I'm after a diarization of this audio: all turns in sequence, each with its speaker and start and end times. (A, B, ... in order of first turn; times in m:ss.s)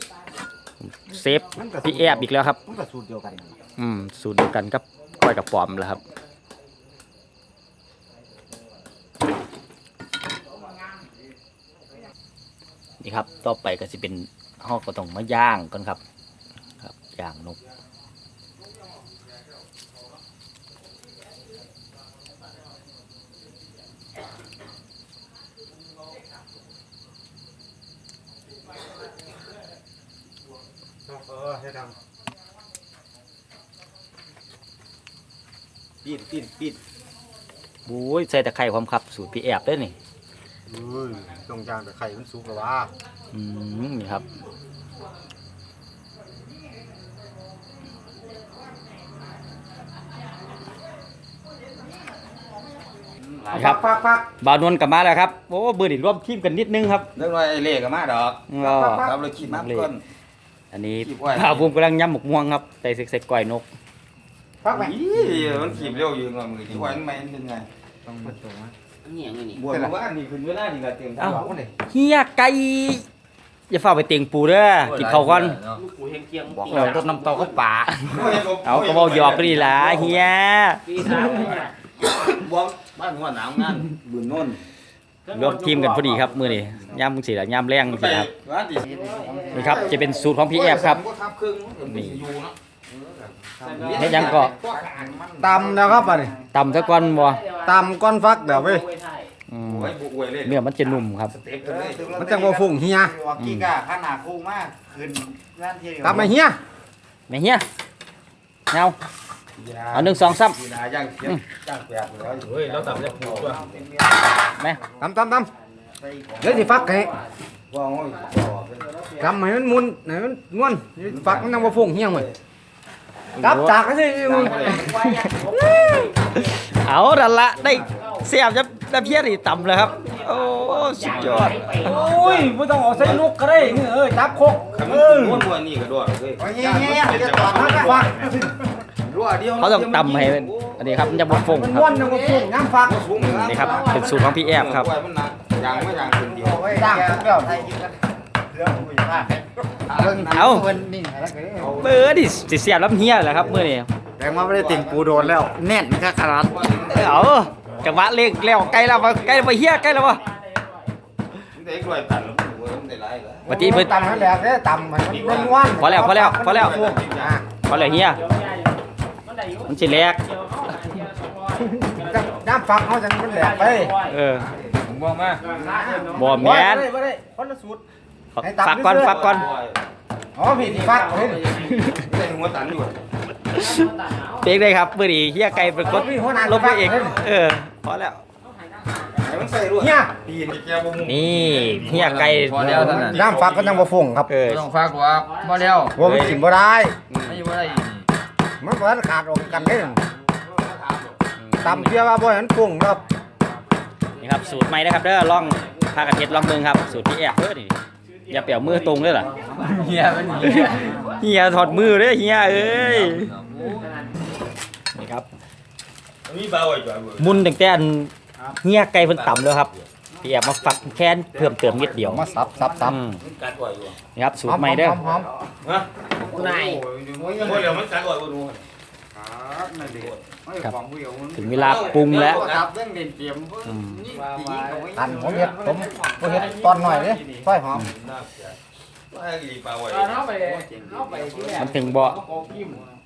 0:00.8-0:02.6 A
0:01.5-0:03.5 B
0:03.8-0:06.0 A
0:13.0-0:16.0 A
0:16.8-0:17.6 A
0:31.0-0:31.9 B
0:36.0-0:36.8 B
0:37.8-0:39.9 A
0:40.7-0:42.9 B
0:43.3-0:44.2 A
0:53.2-0:54.2 C
0:53.5-0:53.8 A
0:54.4-0:57.1 A
0:57.1-1:00.0 C
0:58.5-0:59.9 A
0:58.6-0:59.2 B
1:00.7-1:03.7 A
1:01.0-1:01.7 C
1:04.6-1:04.9 B
1:04.7-1:07.7 C
1:08.0-1:08.7 D
1:09.0-1:09.6 E
1:09.5-1:11.7 C
1:11.2-1:13.0 A
1:13.7-1:15.6 A
1:14.8-1:15.8 C
1:15.7-1:17.5 E
1:16.5-1:17.6 D
1:16.7-1:21.2 A
1:17.1-1:20.3 C
1:20.8-1:21.7 E
1:21.1-1:24.6 C
1:25.3-1:26.3 E
1:25.3-1:28.3 A
1:27.9-1:28.9 C
1:28.8-1:29.8 D
1:28.9-1:29.7 E
1:29.5-1:32.6 C
1:29.5-1:31.0 A
1:31.9-1:32.2 A
1:32.9-1:36.5 D
1:33.6-1:35.2 C
1:34.0-1:34.5 A
1:35.4-1:36.3 B
1:36.5-1:37.4 A
1:36.5-1:39.3 E
1:37.6-1:38.8 B
1:39.5-1:41.3 A
1:39.6-1:42.1 C
1:41.6-1:46.3 D
1:42.1-1:43.1 B
1:43.4-1:43.7 A
1:46.0-1:46.6 B
1:47.3-1:47.6 A
1:48.7-1:49.0 A
1:49.6-1:53.7 C
1:49.9-1:50.6 A
1:52.4-1:54.3 D
1:55.0-1:55.5 B
1:56.0-1:56.8 D
1:56.4-1:57.1 B
1:56.4-1:57.3 E
1:57.7-1:58.9 C
1:58.1-1:59.2 E
1:59.2-2:02.3 B
2:01.0-2:02.3 C
2:03.4-2:03.8 A
2:03.4-2:04.9 B
2:04.2-2:04.9 C
2:04.3-2:06.6 E
2:04.8-2:11.6 A
2:07.6-2:08.1 C
2:07.8-2:08.2 E
2:09.7-2:12.1 E
2:10.9-2:13.8 C
2:11.8-2:15.5 B
2:14.7-2:18.4 C
2:16.4-2:17.8 D
2:16.5-2:18.8 B
2:19.0-2:21.4 C
2:19.6-2:21.9 A
2:21.2-2:23.2 B
2:21.9-2:22.4 E
2:22.8-2:27.6 C
2:23.2-2:24.9 A
2:23.5-2:24.3 E
2:23.7-2:24.0 D
2:25.6-2:31.9 D
2:26.6-2:27.6 B
2:29.9-2:30.5 C
2:30.3-2:30.7 A
2:31.6-2:32.1 C
2:31.8-2:33.9 A
2:33.2-2:33.6 C
2:34.2-2:36.7 D
2:34.2-2:35.6 C
2:36.3-2:39.5 C
2:36.7-2:40.2 A
2:38.7-2:40.9 E
2:41.5-2:43.6 C
2:43.4-2:47.4 B
2:43.4-2:43.9 A
2:45.0-2:47.4 C
2:45.8-2:46.9 A
2:47.6-2:48.2 A
2:47.7-2:52.5 E
2:49.7-2:50.2 A
2:51.8-2:53.9 B
2:53.2-2:54.2 E
2:54.1-2:54.5 A
2:54.5-2:55.5 C
2:55.4-2:56.6 E
2:55.5-2:57.8 B
2:56.2-2:56.9 A
2:58.3-2:59.5 A
2:58.4-2:59.4 B
2:59.0-2:59.8 C
3:00.3-3:01.5 B
3:00.4-3:02.0 E
3:01.7-3:01.9 A
3:01.9-3:03.0 C
3:03.5-3:03.8 A
3:03.5-3:04.6 E
3:04.4-3:08.2 A
3:05.8-3:07.2 B
3:08.4-3:09.4 E
3:09.2-3:13.9 C
3:09.8-3:10.1 B
3:11.0-3:13.1 A
3:12.6-3:14.3 B
3:14.3-3:14.7 A
3:14.4-3:16.0 C
3:15.1-3:16.0 E
3:15.9-3:17.0 B
3:16.0-3:16.4 A
3:17.1-3:17.5 A
3:17.2-3:18.1 C
3:18.6-3:20.0 B
3:19.5-3:21.2 C
3:21.4-3:22.0 A
3:21.6-3:23.0 B
3:24.2-3:26.7 E
3:24.2-3:27.7 A
3:28.1-3:31.5 E
3:28.3-3:29.3 A
3:29.3-3:31.3 D
3:29.5-3:31.1 C
3:30.4-3:33.3 A
3:32.4-3:33.8 C
3:33.5-3:34.2 E
3:34.9-3:35.3 A
3:36.2-3:37.4 C
3:37.2-3:42.3 A
3:39.0-3:39.8 C
3:40.6-3:44.0 C
3:42.0-3:43.0 D
3:42.2-3:43.0 B
3:42.8-3:43.2 A
3:44.1-3:45.0 A
3:44.4-3:45.3 B
3:45.0-3:45.4 D
3:45.6-3:48.6 C
3:46.2-3:47.8 D
3:46.3-3:46.8 E
3:49.1-3:55.7 D
3:49.7-3:50.3 C
3:51.3-3:52.5 A
3:51.5-3:52.7 C
3:53.6-3:54.0 A
3:53.8-3:54.4 C
3:54.1-3:57.3 E
3:55.0-3:57.9 B
3:55.1-3:58.6 C
3:59.1-4:01.8 C
3:59.9-4:02.9 E
4:01.1-4:01.5 D
4:01.5-4:02.2 A